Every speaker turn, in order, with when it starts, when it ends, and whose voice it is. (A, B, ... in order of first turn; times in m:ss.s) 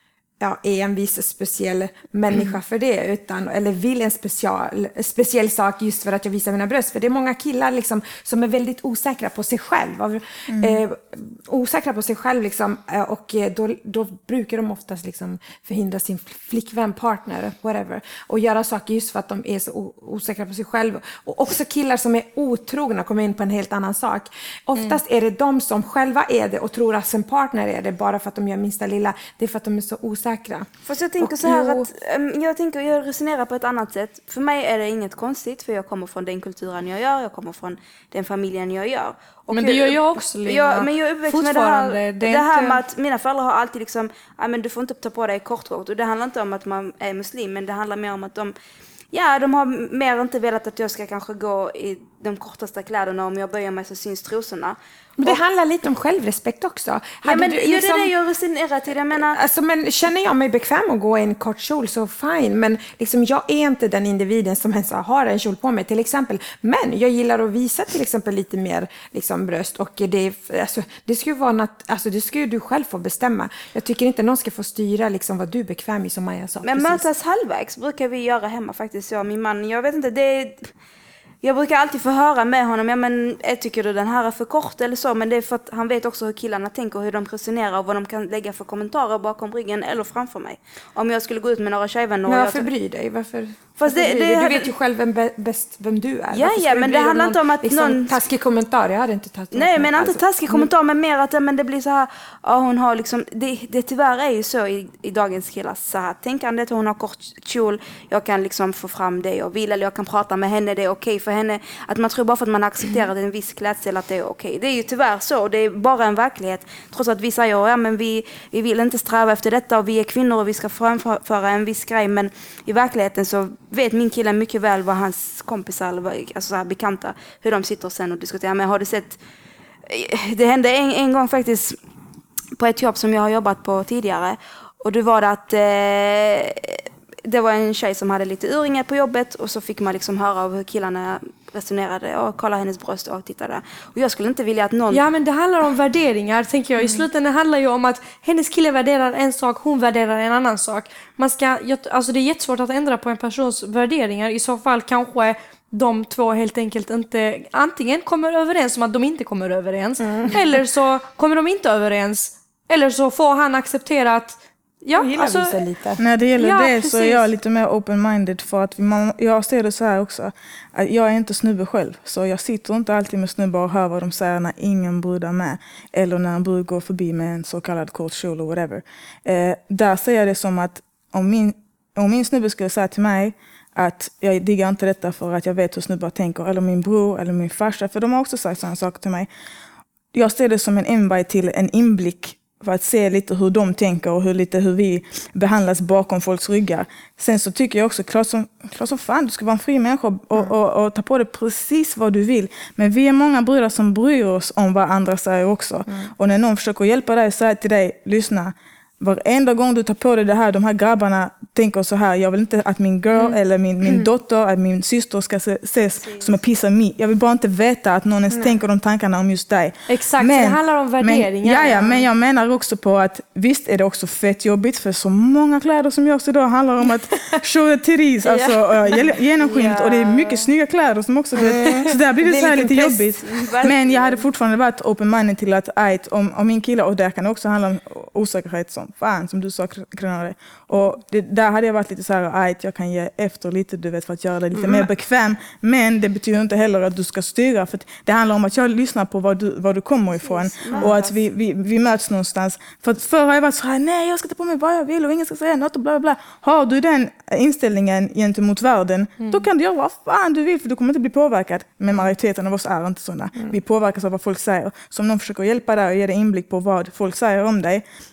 0:00.4-0:31.9 A
0:10.5-0:10.8 B
0:30.9-0:48.5 C
0:39.5-0:42.8 D
0:49.1-0:55.4 C
0:55.2-0:58.1 A
0:57.2-0:59.4 C
0:59.2-1:17.1 A
1:16.6-1:20.7 C
1:21.4-1:32.7 C
1:32.3-1:40.7 A
1:33.8-1:34.7 C
1:36.3-1:38.2 C
1:39.5-2:09.2 C
2:09.9-2:11.8 C
2:12.6-2:25.1 C
2:24.9-2:45.6 D
2:40.0-2:40.4 A
2:45.0-2:46.0 A
2:46.0-3:09.3 B
2:46.4-2:47.3 D
3:10.1-4:27.8 B
3:38.3-3:38.6 A
3:39.9-3:42.0 D
3:49.8-3:50.5 C
3:51.4-3:53.7 A
3:53.4-3:54.2 C
4:04.5-4:04.9 A
4:10.2-4:11.1 C
4:10.7-4:11.0 A
4:19.2-4:19.5 D